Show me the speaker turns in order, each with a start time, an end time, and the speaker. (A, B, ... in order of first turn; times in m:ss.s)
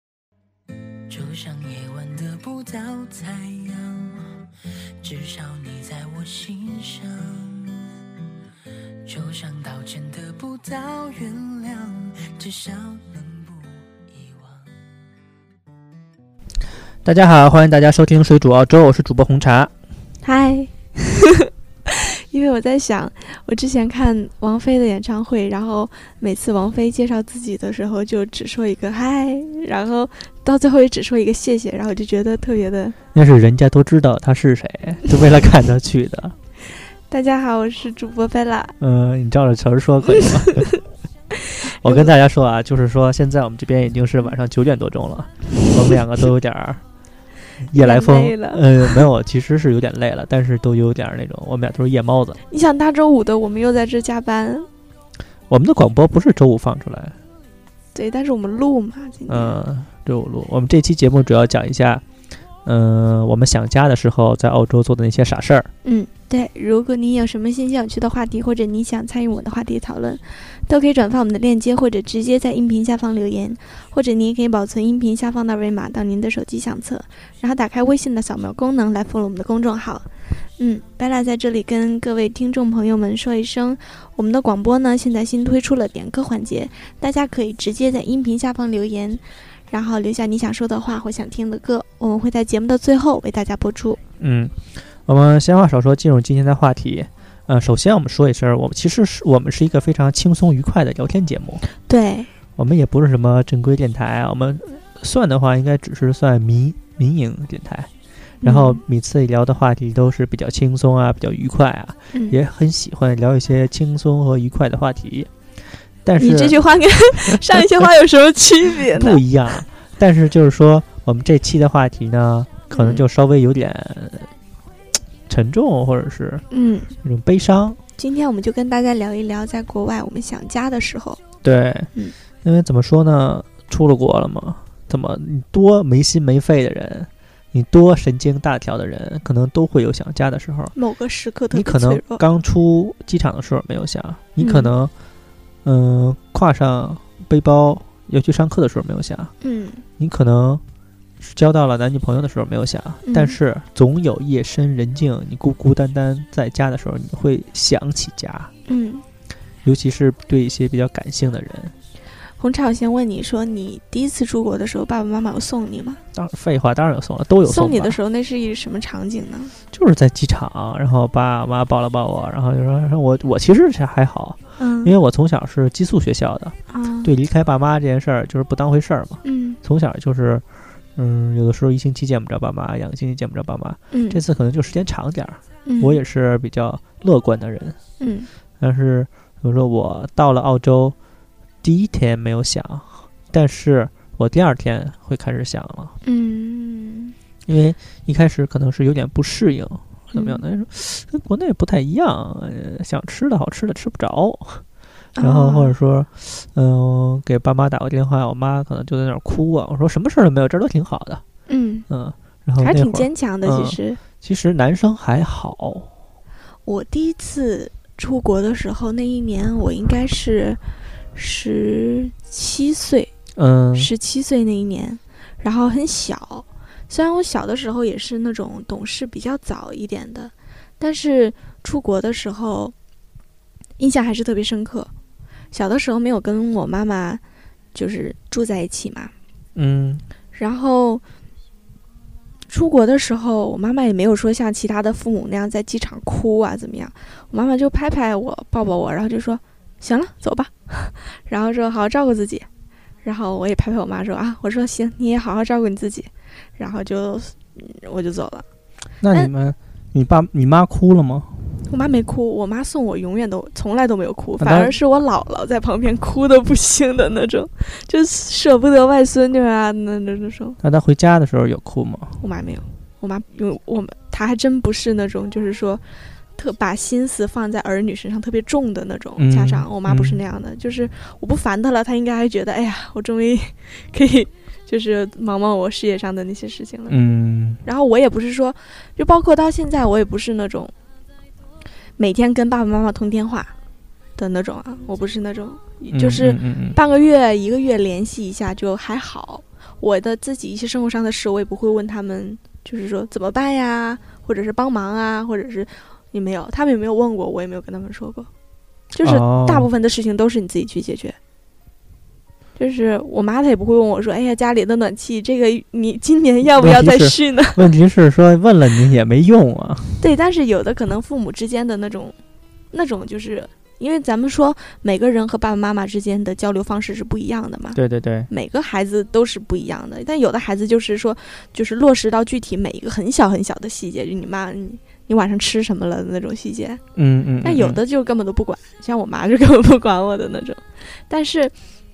0:01.1-0:04.4 A
0:05.0-0:07.8 A
0:09.0-0:14.7 A
0:17.0-0:19.7 B
0:20.2-0:33.0 C
0:33.1-0:36.3 B
0:37.1-0:38.7 C
0:38.8-0:40.6 B
0:41.8-0:46.8 B
0:41.8-0:42.1 C
0:47.6-0:52.4 B
0:47.7-0:48.6 C
0:52.5-0:54.7 C
0:55.5-0:57.1 B
0:57.9-0:59.6 C
0:59.3-1:02.0 B
1:02.6-1:05.7 B
1:05.8-1:34.0 C
1:34.2-1:41.6 B
1:41.8-1:42.3 C
1:42.6-1:47.9 B
1:48.4-1:48.8 C
1:48.4-1:55.3 B
1:56.0-1:56.6 B
1:56.2-1:59.2 C
1:57.2-1:57.8 B
1:58.9-2:04.3 B
2:02.7-2:03.0 C
2:05.3-2:06.4 B
2:06.5-2:06.9 C
2:07.0-2:07.8 B
2:08.0-2:11.2 C
2:11.4-2:11.9 B
2:12.4-2:20.7 B
2:20.7-2:22.2 C
2:21.5-2:24.9 B
2:24.4-2:24.7 C
2:25.6-2:29.3 B
2:29.4-2:29.8 C
2:30.0-2:30.6 B
2:31.2-2:38.5 B
2:33.0-2:33.4 C
2:38.7-2:39.0 C
2:39.6-2:41.7 B
2:42.4-2:46.0 C
2:46.1-2:48.0 B
2:47.4-2:49.5 C
2:49.7-3:00.4 B
2:54.6-2:54.9 C
2:56.7-2:57.1 C
2:59.2-2:59.6 C
3:01.0-3:07.8 B
3:03.9-3:04.2 C
3:05.6-3:06.0 C
3:08.0-3:08.3 C
3:08.6-3:10.9 B
3:11.6-3:15.9 B
3:16.0-3:17.1 C
3:17.4-3:24.6 B
3:20.1-3:20.4 C
3:25.2-3:25.7 C
3:25.2-3:31.2 B
3:31.5-3:31.8 C
3:31.9-3:35.9 B
3:32.6-3:34.0 C
3:36.6-3:40.6 C
3:41.1-3:43.1 C
3:43.4-3:43.9 B
3:43.7-3:52.7 C
3:53.8-3:54.9 C
3:55.5-3:57.2 C
3:57.7-3:59.1 C
3:59.5-4:00.0 B
4:00.3-4:01.0 C
4:02.5-4:12.5 C
4:13.0-4:18.4 C
4:19.0-4:21.4 B
4:21.7-4:30.6 C
4:24.4-4:24.7 B
4:30.6-4:32.2 B
4:32.2-4:35.8 C
4:36.4-4:47.0 C
4:39.2-4:40.2 B
4:46.9-4:47.6 B
4:47.6-4:50.7 C
4:52.0-4:53.5 C
4:54.2-5:08.3 C
4:55.9-4:56.8 B
5:08.9-5:11.2 C
5:09.0-5:09.7 B
5:12.6-5:17.6 C
5:16.6-5:20.0 B
5:20.0-5:22.2 C
5:22.7-5:36.8 C
5:27.7-5:28.3 B
5:37.0-5:37.8 B
5:37.4-5:41.5 C